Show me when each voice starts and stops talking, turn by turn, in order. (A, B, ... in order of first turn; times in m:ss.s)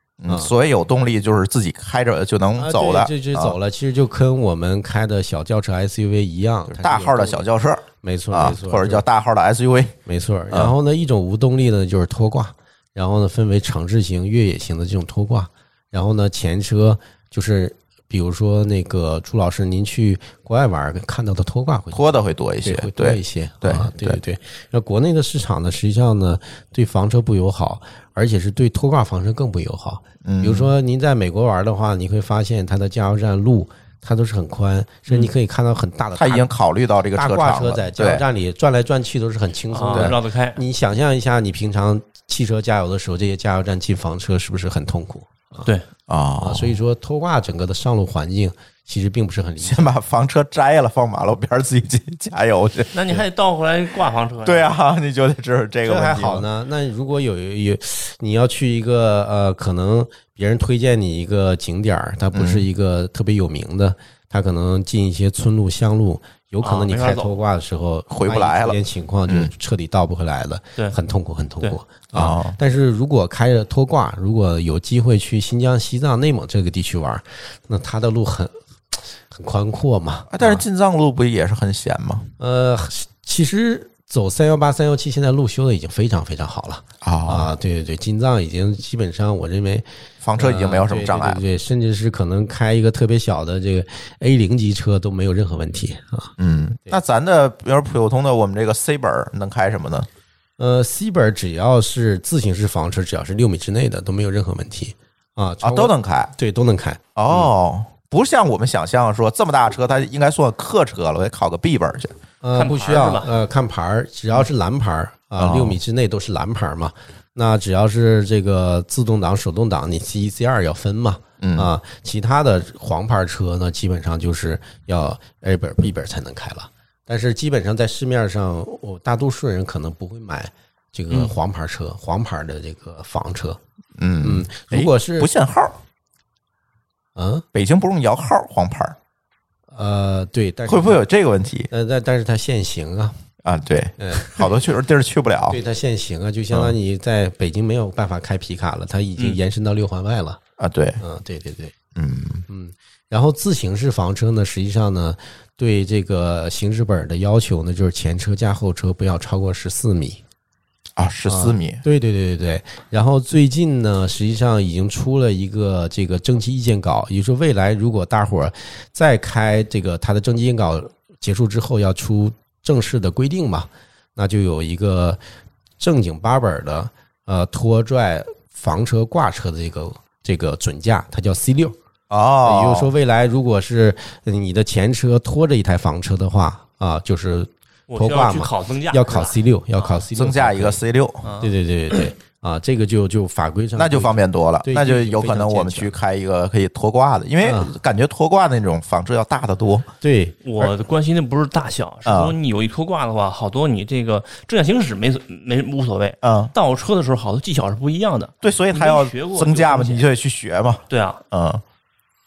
0:00.2-0:03.6 A
0:02.6-0:07.4 B
0:06.7-0:10.0 A
0:08.0-0:09.0 B
0:10.0-0:36.5 B
0:21.9-0:24.2 A
0:30.2-0:30.7 A
0:36.2-0:38.2 A
0:37.1-0:45.7 B
0:39.7-0:40.6 C
0:46.1-0:46.8 A
0:46.4-0:49.9 B
0:49.6-0:53.0 A
0:52.9-0:54.7 C
0:54.4-0:56.5 A
0:55.8-1:20.6 B
1:02.3-1:02.6 A
1:06.6-1:07.3 C
1:08.1-1:09.5 A
1:12.1-1:12.6 A
1:20.3-1:22.3 A
1:22.4-1:29.8 B
1:27.0-1:27.5 A
1:30.2-1:31.4 A
1:30.4-1:36.3 B
1:36.4-1:40.1 A
1:40.6-1:47.5 B
1:45.6-1:46.3 A
1:47.2-1:52.2 A
1:52.4-2:13.6 B
1:52.5-1:53.3 C
1:55.4-1:55.8 A
2:01.4-2:01.7 A
2:14.0-2:15.8 A
2:14.2-2:15.3 B
2:17.2-2:17.4 B
2:17.5-2:19.0 A
2:19.7-2:21.0 B
2:20.7-2:21.7 A
2:21.7-2:23.2 B
2:23.4-2:25.6 A
2:24.0-2:24.6 B
2:25.5-2:30.4 B
2:30.6-2:31.0 A
2:31.0-2:31.7 B
2:31.9-2:32.4 A
2:32.5-2:40.2 B
2:41.0-2:41.8 A
2:41.3-2:55.2 B
2:55.8-3:01.8 B
3:02.1-3:02.9 A
3:02.4-3:10.8 B
3:07.9-3:10.0 C
3:10.1-3:11.3 A
3:11.2-3:12.0 C
3:11.4-3:16.0 B
3:13.8-3:19.9 A
3:17.4-3:17.7 B
3:20.0-3:20.7 B
3:20.4-3:30.1 C
3:22.0-3:22.4 A
3:26.2-3:26.5 A
3:28.4-3:31.6 A
3:30.9-3:31.2 C